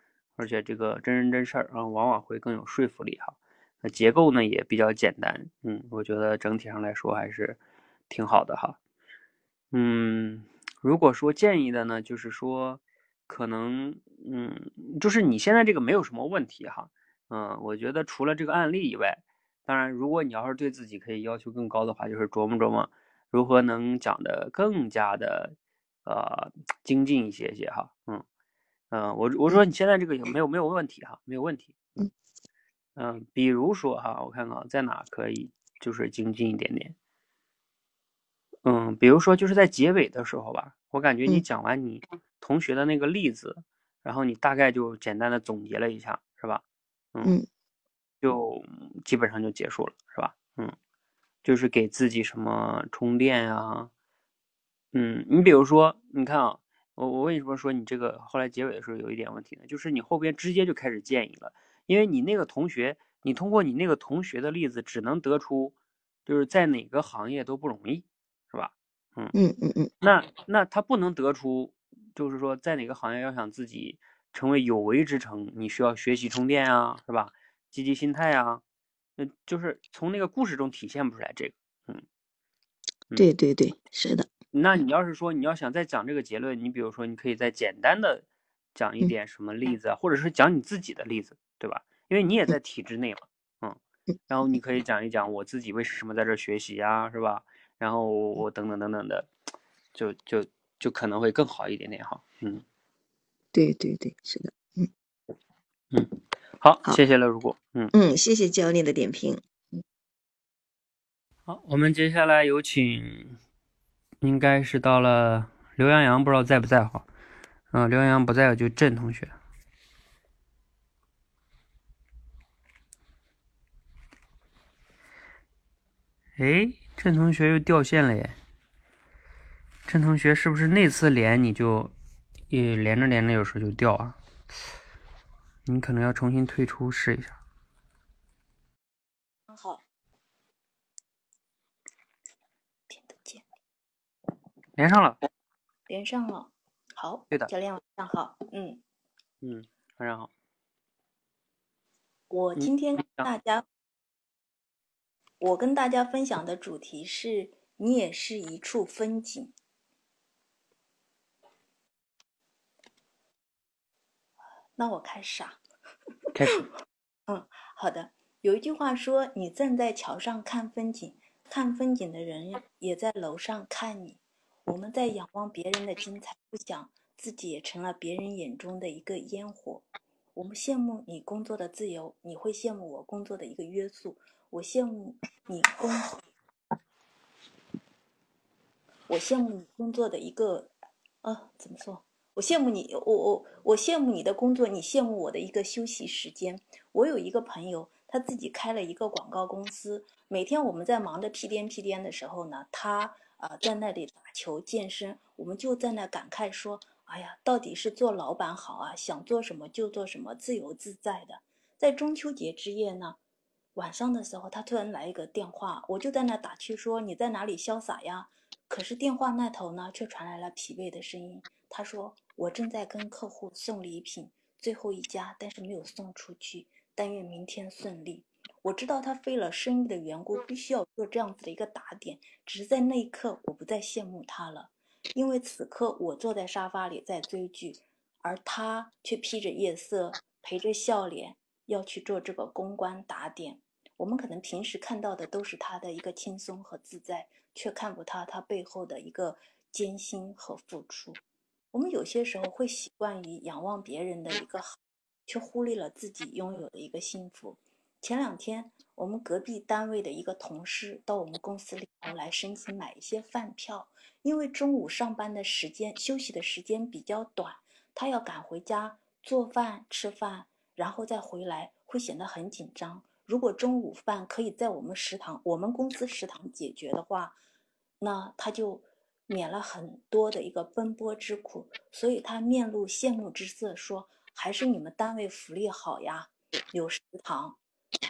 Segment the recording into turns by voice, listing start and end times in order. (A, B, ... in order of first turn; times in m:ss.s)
0:00.4-0:07.6 A
0:08.1-0:08.8 A
0:09.7-0:25.5 A
0:26.0-0:28.2 A
0:28.9-0:31.8 A
0:33.0-0:37.0 A
0:38.6-0:46.6 A
0:48.2-0:50.8 A
0:51.4-0:53.9 A
0:54.9-1:05.8 A
1:06.3-1:09.3 A
1:09.4-1:09.9 B
1:10.0-1:18.6 A
1:19.2-1:22.0 A
1:23.2-1:24.3 B
1:24.5-1:33.8 A
1:34.3-1:39.3 A
1:40.0-1:42.6 A
1:43.5-1:44.9 B
1:45.9-1:47.9 A
1:47.9-1:49.8 B
1:51.5-1:53.4 A
1:54.2-1:57.0 A
1:57.7-1:59.4 A
2:06.4-2:08.4 A
2:09.9-2:11.9 A
2:12.5-2:14.2 A
2:15.7-2:17.4 A
2:19.5-2:19.8 C
2:22.9-2:23.4 C
2:24.8-2:25.2 A
2:25.9-2:28.8 C
2:29.4-2:30.3 A
2:32.3-2:33.7 C
2:32.6-2:33.3 A
2:35.4-2:39.5 C
2:44.8-2:45.6 C
2:46.3-2:46.6 A
2:47.3-3:06.2 C
3:09.1-3:33.2 C
3:33.8-4:11.2 C
4:11.7-4:37.4 C
4:38.0-4:47.6 C